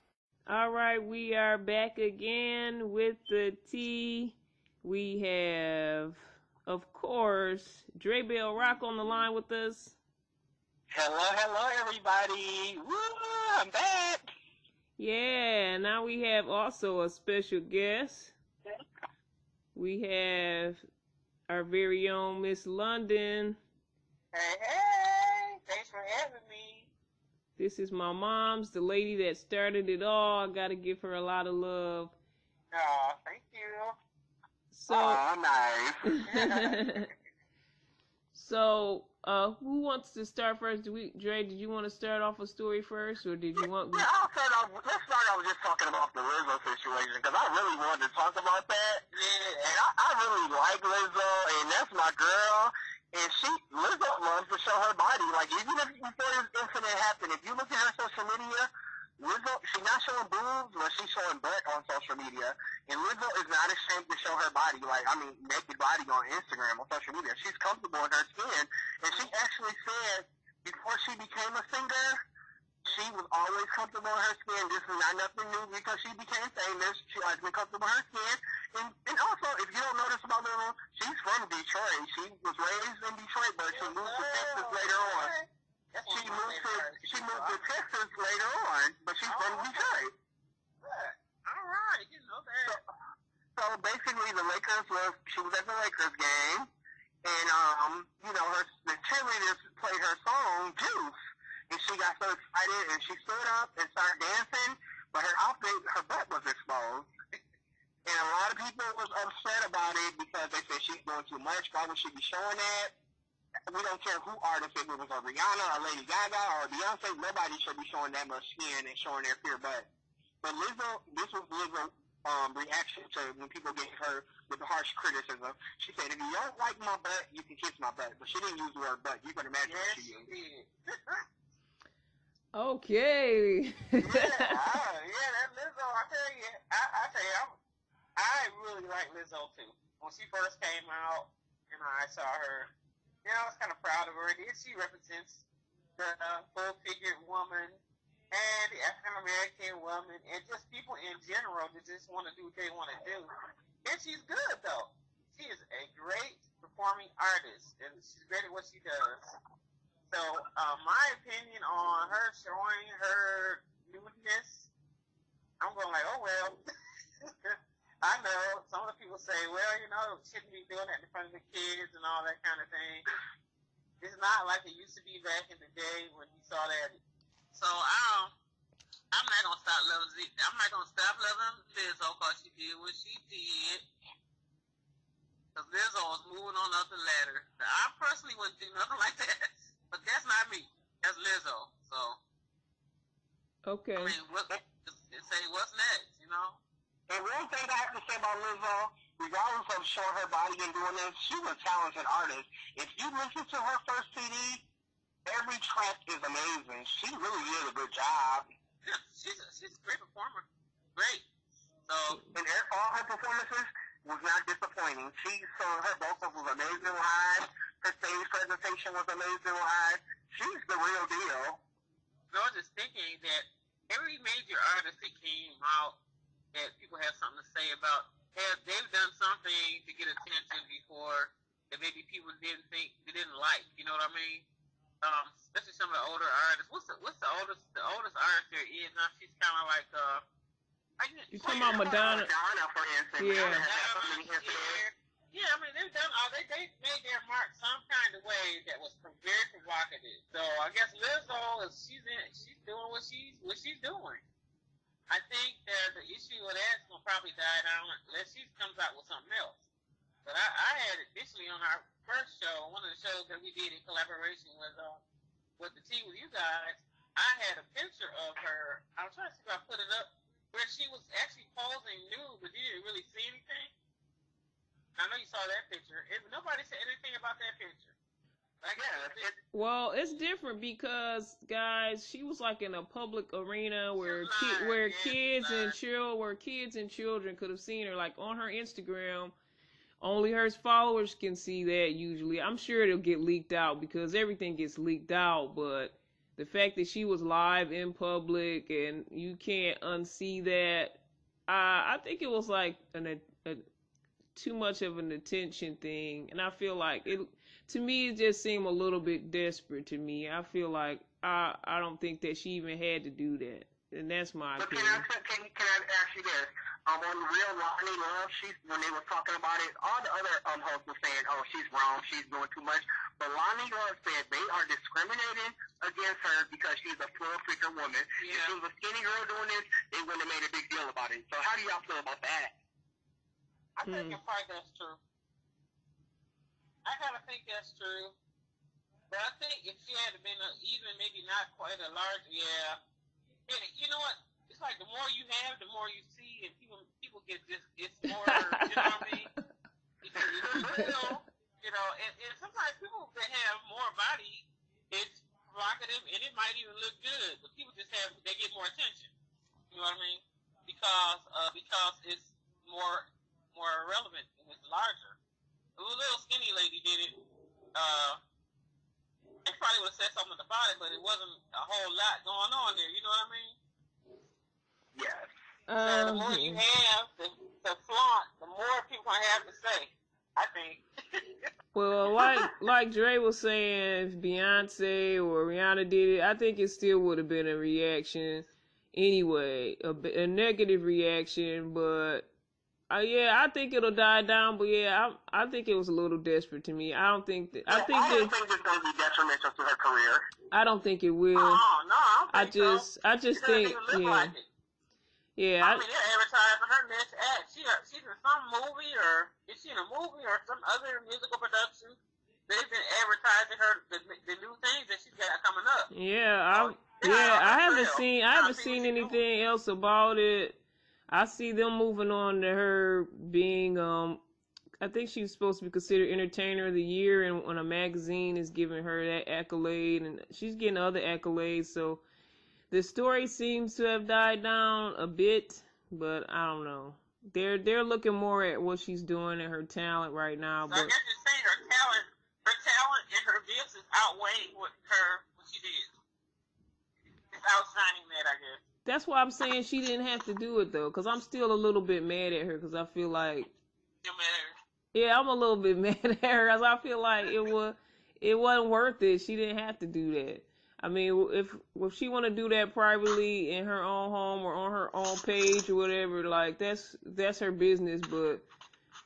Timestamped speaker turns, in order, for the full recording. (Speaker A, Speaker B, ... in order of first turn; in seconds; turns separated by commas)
Speaker A: 0.5-10.0, Speaker B: 10.9-14.3, Speaker A: 15.0-18.3, Speaker A: 19.7-20.8, Speaker A: 21.5-23.6, Speaker C: 24.3-26.9, Speaker A: 27.6-32.1, Speaker C: 32.7-34.0, Speaker A: 34.7-35.2, Speaker B: 34.9-36.7, Speaker A: 36.2-37.1, Speaker A: 38.3-44.1, Speaker B: 43.5-49.0, Speaker C: 49.1-49.7, Speaker B: 49.6-72.2, Speaker B: 72.8-85.3, Speaker C: 83.7-87.6, Speaker B: 86.1-90.1, Speaker C: 89.2-89.9, Speaker C: 90.8-92.8, Speaker B: 93.5-96.7, Speaker B: 97.2-101.1, Speaker B: 101.7-107.1, Speaker B: 108.0-112.9, Speaker B: 113.7-119.9, Speaker B: 120.4-130.3, Speaker C: 129.7-131.2, Speaker A: 132.5-134.5, Speaker C: 134.0-137.6, Speaker C: 138.2-142.7, Speaker C: 143.2-145.4, Speaker C: 146.0-147.8, Speaker C: 148.3-153.3, Speaker C: 153.8-159.3, Speaker C: 160.1-164.7, Speaker C: 165.6-166.6, Speaker C: 167.2-173.0, Speaker C: 174.0-177.0, Speaker C: 177.5-178.3, Speaker C: 179.1-183.8, Speaker C: 185.5-192.2, Speaker A: 193.6-194.2, Speaker C: 194.0-196.6, Speaker B: 197.1-204.6, Speaker B: 205.2-208.4, Speaker C: 208.8-211.2, Speaker C: 211.8-212.2, Speaker B: 212.3-221.6, Speaker C: 222.3-226.0, Speaker C: 226.5-234.4, Speaker C: 235.0-240.2, Speaker C: 241.0-242.2, Speaker A: 241.3-242.3, Speaker B: 241.5-244.8, Speaker A: 243.2-243.7, Speaker C: 243.3-254.2, Speaker C: 255.1-259.6, Speaker C: 260.2-265.0, Speaker C: 265.6-273.7, Speaker C: 275.0-277.9, Speaker C: 278.6-279.3, Speaker B: 278.7-279.3, Speaker A: 279.5-289.3, Speaker C: 284.0-285.8, Speaker A: 290.0-303.6, Speaker A: 304.3-315.0, Speaker B: 314.6-332.5, Speaker C: 328.2-328.5, Speaker C: 333.8-335.0, Speaker A: 333.8-334.2, Speaker C: 336.8-338.1, Speaker C: 339.1-342.8, Speaker C: 343.5-349.3, Speaker A: 348.2-349.1, Speaker C: 350.0-359.1, Speaker B: 350.2-350.9, Speaker A: 350.5-350.9, Speaker C: 359.7-365.1, Speaker C: 365.8-367.2, Speaker C: 367.7-368.2, Speaker C: 369.4-373.6, Speaker B: 374.9-375.3, Speaker A: 375.7-376.6, Speaker C: 375.8-381.5, Speaker A: 381.7-392.3, Speaker B: 382.2-382.5, Speaker A: 392.9-398.3, Speaker B: 397.7-400.3, Speaker A: 400.5-401.6, Speaker C: 401.3-404.4, Speaker A: 402.3-404.3, Speaker A: 405.4-405.8, Speaker C: 405.6-412.0, Speaker C: 412.5-415.9, Speaker A: 415.9-420.6, Speaker C: 416.5-419.2, Speaker A: 421.1-424.2, Speaker A: 424.8-432.0, Speaker A: 432.7-440.9, Speaker C: 440.7-445.9, Speaker C: 447.3-448.6, Speaker A: 448.9-453.5, Speaker C: 454.0-454.6, Speaker A: 454.9-468.4